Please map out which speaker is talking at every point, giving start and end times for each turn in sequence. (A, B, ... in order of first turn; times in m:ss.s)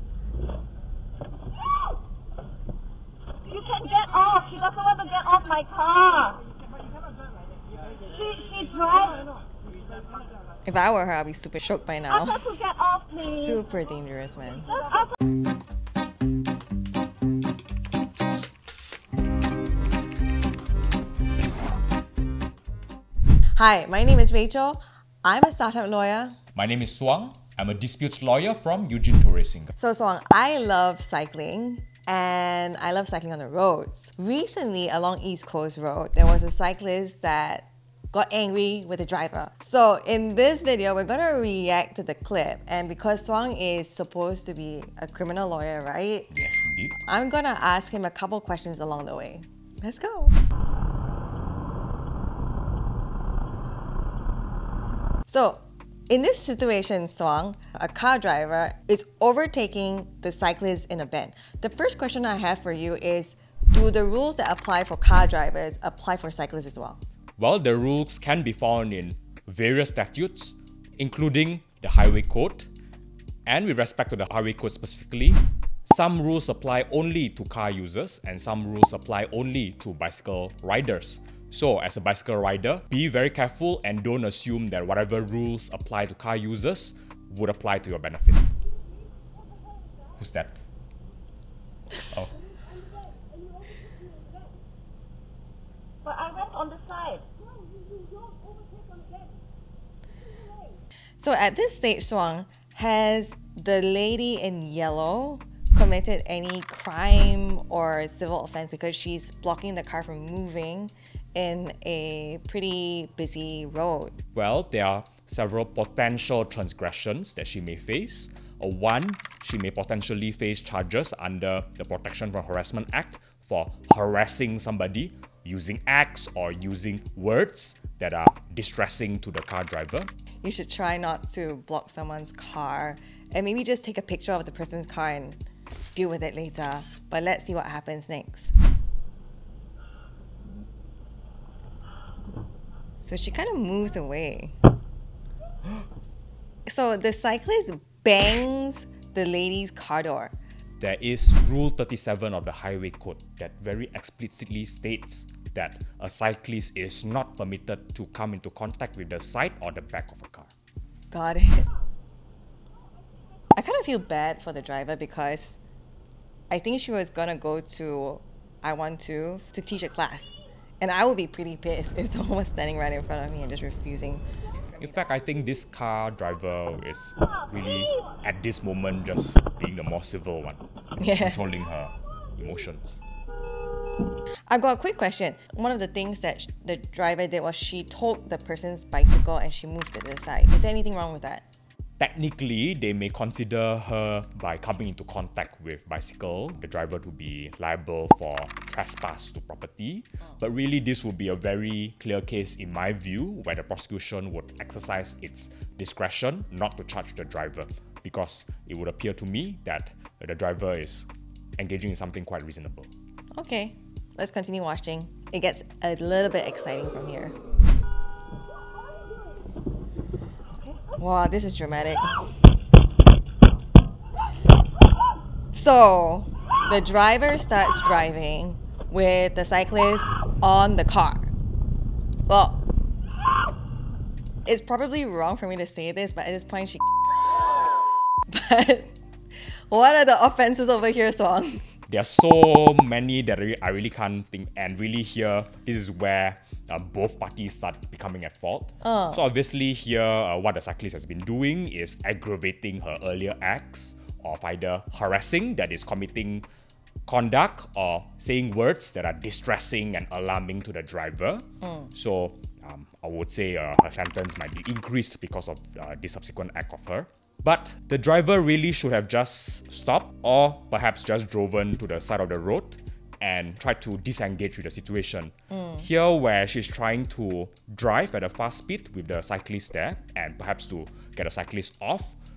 0:03.5-0:06.3 A
0:08.3-0:09.1 A
0:10.6-0:12.6 B
0:13.1-0:14.8 B
0:23.6-0:26.4 B
0:26.6-0:29.7 C
0:29.8-0:46.3 B
0:46.3-0:47.0 C
0:47.1-0:50.4 B
0:55.3-1:07.0 B
1:07.4-1:12.7 C
1:13.5-1:28.5 C
1:30.2-1:30.6 C
1:36.3-1:37.0 A
1:41.2-1:54.1 B
1:54.3-2:10.1 C
2:10.4-2:15.4 B
2:16.0-2:18.5 B
2:23.0-2:24.5 B
2:26.7-2:30.4 B
2:30.8-2:40.5 C
2:41.1-2:41.7 B
2:43.6-2:45.6 B
2:46.5-2:54.2 B
2:54.8-3:00.6 C
3:01.0-3:01.4 B
3:01.2-3:03.0 C
3:04.5-3:11.4 B
3:12.0-3:32.9 C
3:33.4-3:37.4 B
3:41.0-3:42.3 B
3:45.5-3:51.3 B
3:52.3-3:52.6 B
3:54.5-3:56.8 B
3:58.3-3:58.9 B
3:59.7-4:01.7 B
4:01.9-4:16.5 C
4:08.8-4:09.2 B
4:17.1-4:42.2 C